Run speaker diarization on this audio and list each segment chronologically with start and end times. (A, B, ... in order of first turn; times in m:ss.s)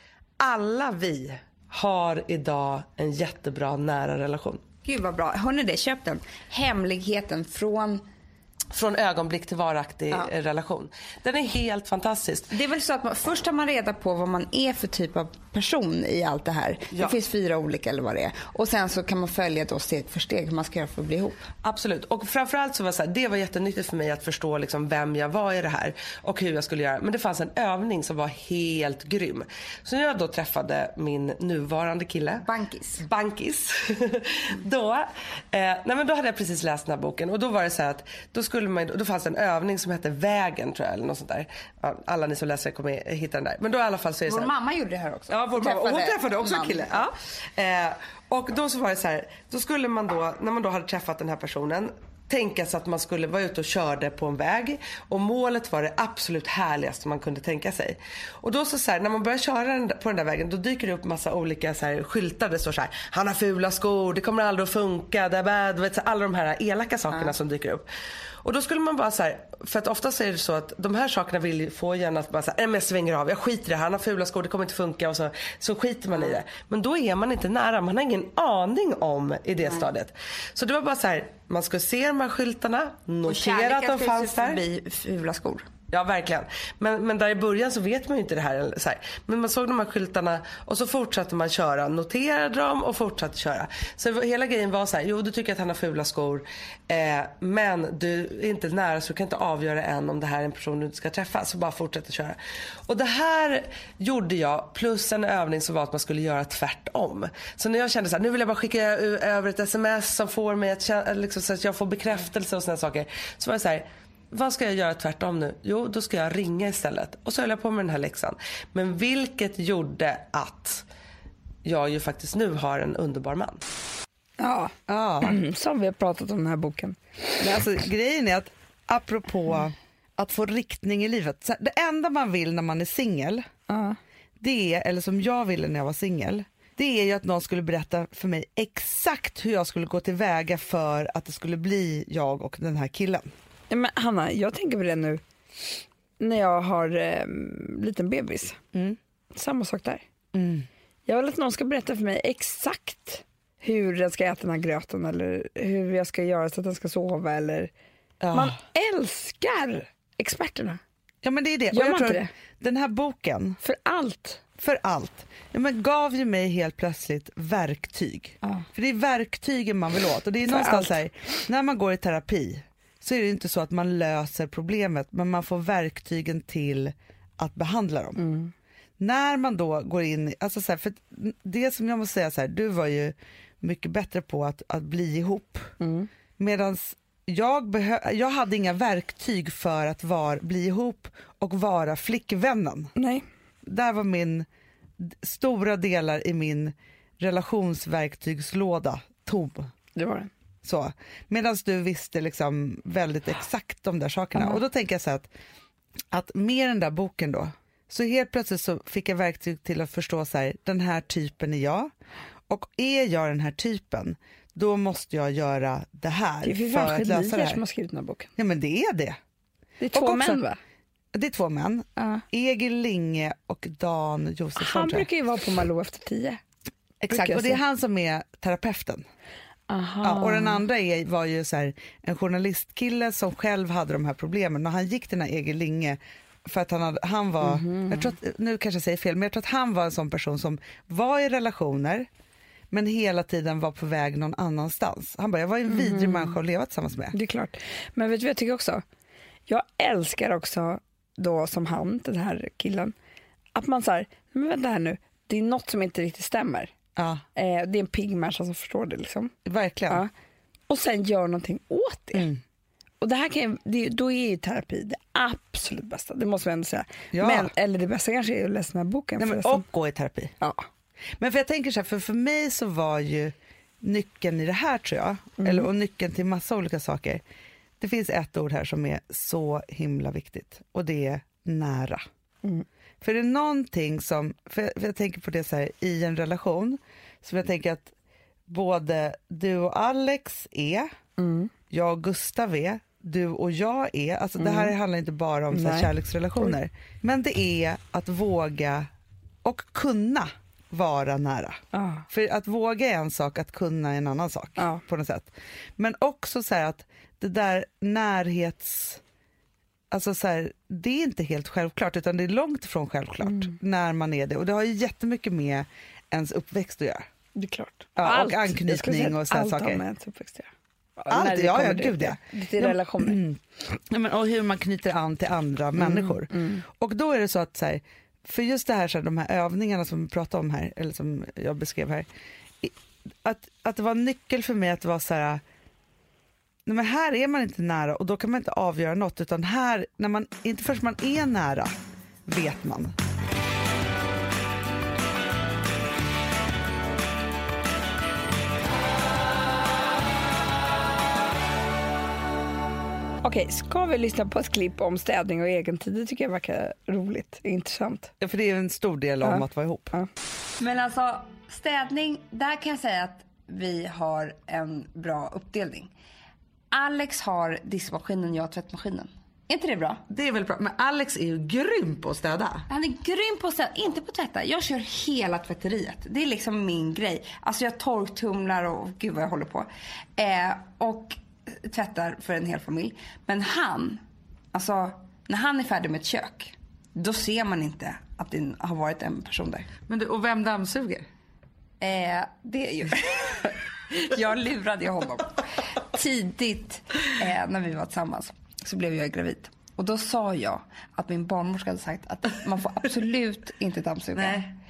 0:00.4-0:04.6 A
0:04.8-0:08.0 B
0:08.7-0:12.5 A
0:12.5-0:21.4 B
0:21.6-0:32.5 A
0:32.4-0:33.0 B
0:33.0-0:44.5 A
0:44.3-0:47.1 B
0:45.3-1:07.8 A
1:08.4-1:24.6 A
1:19.6-1:19.9 B
1:23.2-1:25.7 B
1:25.9-2:00.8 A
2:01.6-2:03.6 A
2:04.4-2:07.0 C
2:04.9-2:05.4 D
2:07.4-2:13.5 D
2:13.7-2:14.0 C
2:14.4-2:23.3 D
2:23.7-2:25.2 C
2:26.2-2:28.6 C
2:29.3-2:30.0 C
2:30.3-2:30.7 D
2:31.1-2:37.7 C
2:38.2-2:38.6 D
2:38.3-2:40.8 C
2:41.2-2:43.6 D
2:41.7-2:42.3 C
2:43.6-2:44.4 C
2:44.6-2:58.2 D
2:50.4-2:51.0 C
2:58.2-2:58.5 C
2:59.0-3:05.7 D
3:05.8-3:06.1 C
3:06.4-3:12.9 D
3:13.0-3:13.3 C
3:13.6-3:14.5 D
3:15.0-3:19.7 D
3:19.9-3:20.3 C
3:20.6-3:25.3 D
3:24.4-3:24.6 C
3:26.1-3:31.9 D
3:32.5-3:37.6 D
3:36.4-3:38.3 C
3:38.4-3:39.2 D
3:39.8-3:40.6 C
3:39.9-3:40.4 D
3:41.1-3:45.1 D
3:42.0-3:42.2 C
3:44.6-3:46.4 C
3:47.0-3:49.0 D
3:47.1-3:47.6 C
3:49.7-3:50.6 C
3:50.0-4:02.1 D
3:57.4-3:58.1 C
4:02.7-4:07.2 D
4:05.7-4:06.4 C
4:07.1-4:08.8 C
4:09.5-4:13.0 C
4:13.5-4:16.7 C
4:17.0-4:17.2 D
4:17.4-4:19.3 C
4:19.4-4:20.0 D
4:20.7-4:22.3 C
4:22.1-4:22.4 D
4:23.0-4:29.7 C
4:27.1-4:27.5 D
4:29.2-4:30.3 D
4:30.4-4:30.6 C
4:31.2-4:37.2 D
4:35.4-4:35.7 C
4:37.8-4:42.0 D
4:43.0-4:47.9 D
4:48.5-4:50.9 D
4:51.2-4:51.5 C
4:51.7-4:58.9 D
4:54.4-4:54.8 C
4:55.5-4:56.5 C
4:59.4-5:09.0 D
5:01.7-5:02.1 C
5:04.6-5:04.8 C
5:09.9-5:17.1 D
5:13.2-5:13.5 C
5:17.4-5:23.2 C
5:18.0-5:19.8 D
5:21.1-5:32.1 D
5:25.8-5:26.6 C
5:32.6-5:35.4 D
5:36.7-5:42.9 D
5:53.2-5:58.1 C
5:58.2-5:59.9 D
5:59.2-6:00.1 C
6:00.6-6:05.9 B
6:06.7-6:10.0 B
6:10.1-6:12.7 D
6:12.7-6:24.0 B
6:24.5-6:29.7 B
6:29.9-6:31.1 D
6:31.8-6:44.5 B
6:44.2-6:44.5 D